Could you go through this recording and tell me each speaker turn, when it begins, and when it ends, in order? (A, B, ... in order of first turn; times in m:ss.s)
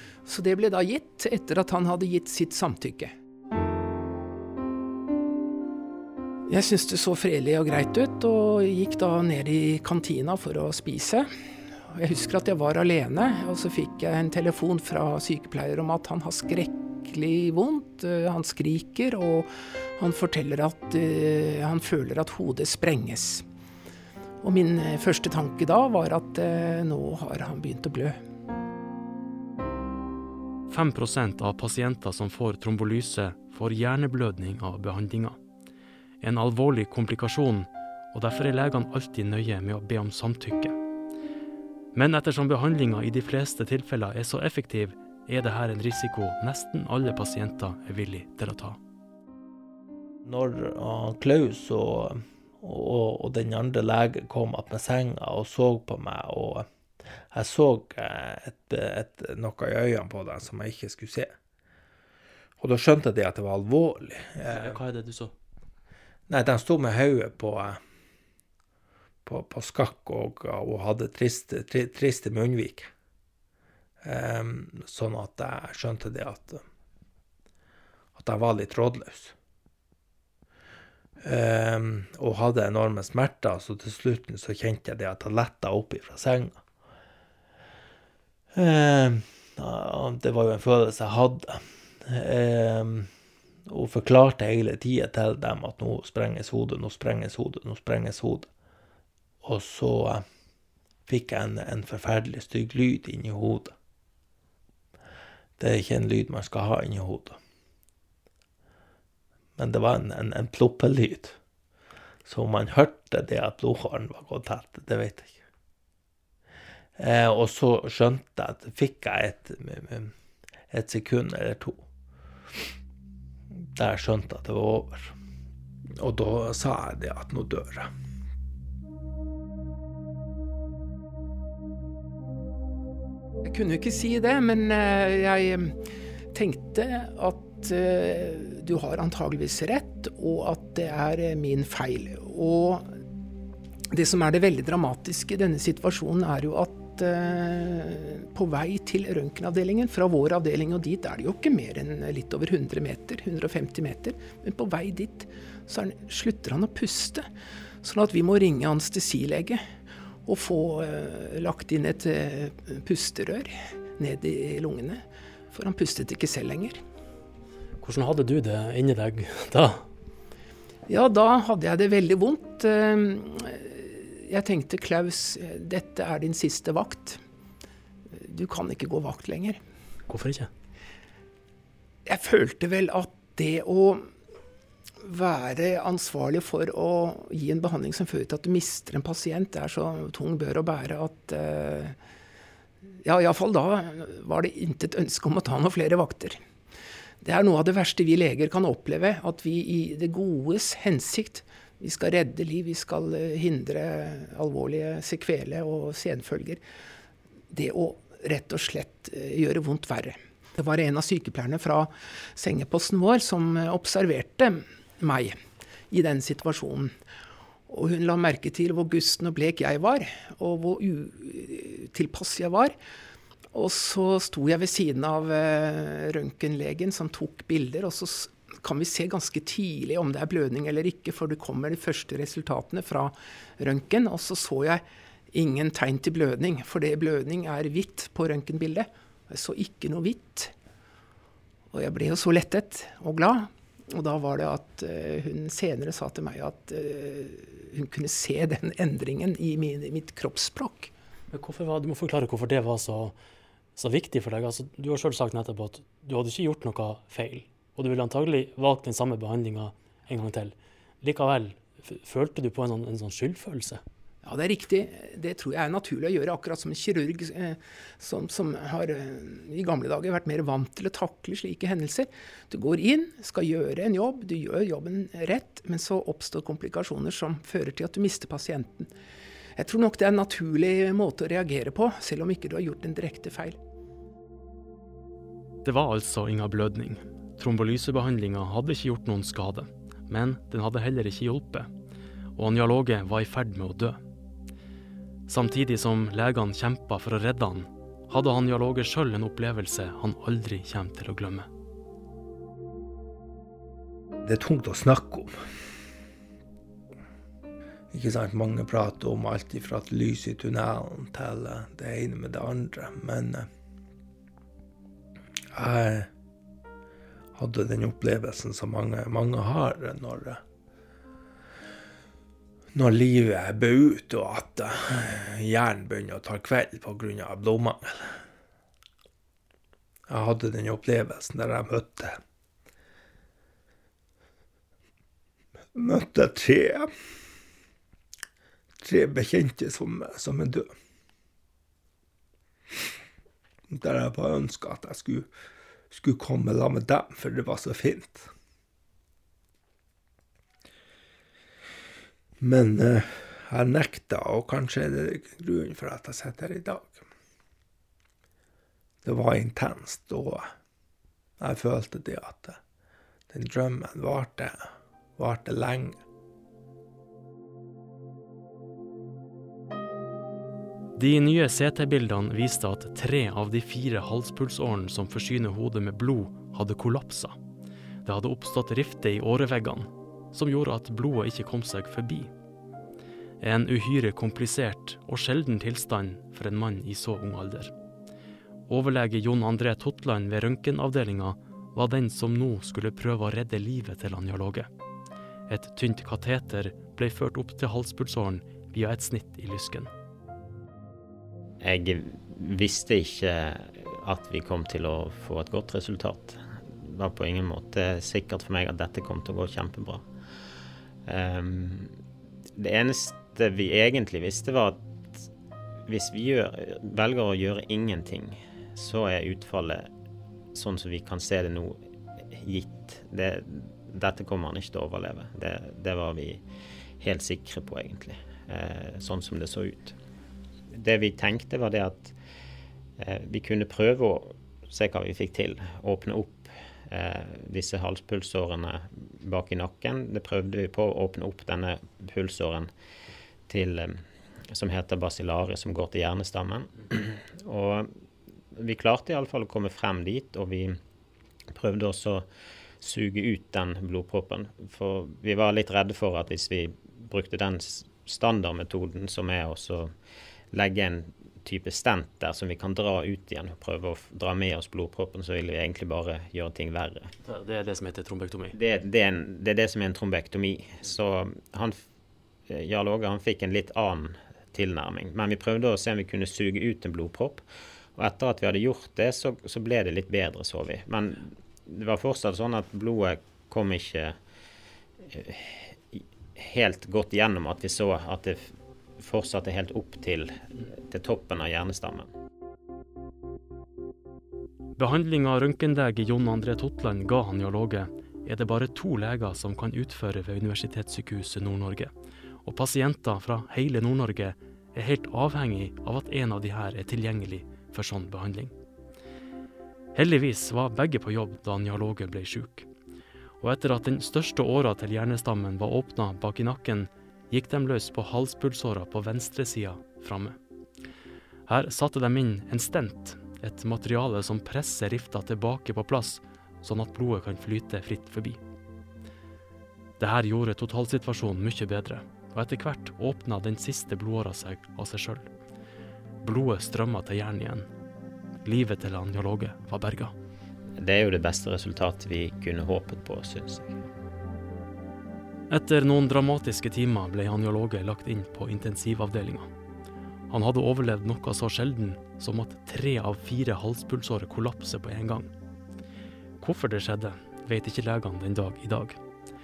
0:00.2-0:03.1 A
0:06.5-0:11.3 A
0:11.9-0:23.4 A
0:24.4-0:28.2 A
0:30.7-0:35.4 B
0:36.2-0:40.8 B
0:41.9-0:48.8 B
0:50.2-0:56.7 C
0:57.3-1:01.3 C
1:02.6-1:04.8 C
1:04.5-1:05.3 B
1:06.3-1:07.8 C
1:09.2-1:12.9 C
1:14.0-1:16.6 C
1:18.1-1:19.3 C
1:21.2-1:26.6 C
1:28.5-1:33.1 C
1:33.7-1:38.5 C
1:39.4-1:40.2 C
1:41.1-1:43.7 C
1:45.6-1:47.4 C
1:49.6-1:51.4 C
1:52.2-1:55.4 C
1:57.0-2:00.1 C
2:00.7-2:01.8 C
2:03.8-2:05.1 C
2:06.0-2:07.9 C
2:13.4-2:15.8 A
2:16.3-2:22.9 A
2:23.9-2:37.2 A
2:37.8-2:39.6 A
2:40.2-2:46.8 A
2:47.8-2:49.8 B
2:50.9-2:57.2 A
2:58.1-2:59.6 A
3:00.1-3:00.5 B
3:02.0-3:04.1 A
3:05.0-3:12.0 A
3:13.0-3:16.4 A
3:17.2-3:26.6 A
3:27.5-3:35.4 A
3:35.9-3:36.9 A
3:37.7-3:42.7 A
3:43.5-4:00.5 A
4:01.7-4:10.9 A
4:11.3-4:13.2 B
4:13.8-4:23.8 B
4:24.2-4:38.9 A
4:39.6-4:43.6 A
4:45.6-4:51.7 B
4:52.4-4:54.0 B
4:55.3-5:01.5 B
5:04.2-5:05.3 C
5:07.9-5:13.5 C
5:15.5-5:16.1 C
5:17.3-5:20.4 C
5:22.7-5:28.2 C
5:30.1-5:32.2 C
5:35.7-5:36.9 C
5:38.8-5:40.7 C
5:43.7-5:45.3 C
5:45.9-5:48.3 C
5:52.4-5:57.0 C
5:59.0-6:00.5 C
6:01.4-6:02.6 C
6:03.3-6:06.0 C
6:11.0-6:17.4 B
6:18.0-6:22.3 B
6:23.4-6:27.7 B
6:28.7-6:34.7 B
6:35.5-6:39.9 B
6:41.6-6:50.0 D
6:51.0-6:52.0 D
6:52.6-6:55.3 D
6:55.8-6:59.9 D
7:00.5-7:06.4 D
7:07.0-7:10.0 D
7:10.7-7:12.1 D
7:13.0-7:22.7 D
7:23.5-7:30.8 D
7:31.5-7:32.3 D
7:32.8-7:39.9 D
7:40.5-7:47.1 D
7:47.2-7:48.5 B
7:48.5-7:51.8 D
7:52.5-7:57.4 D
7:58.0-8:04.2 D
8:05.0-8:12.1 D
8:14.8-8:21.9 B
8:22.4-8:28.5 B
8:29.9-8:32.7 B
8:33.4-8:40.4 B
8:41.5-8:48.4 B
8:50.0-8:55.3 B
8:56.2-8:57.7 B
8:58.4-9:00.1 B
9:00.8-9:03.8 D
9:05.5-9:09.5 B
9:10.3-9:15.3 B
9:16.4-9:19.0 B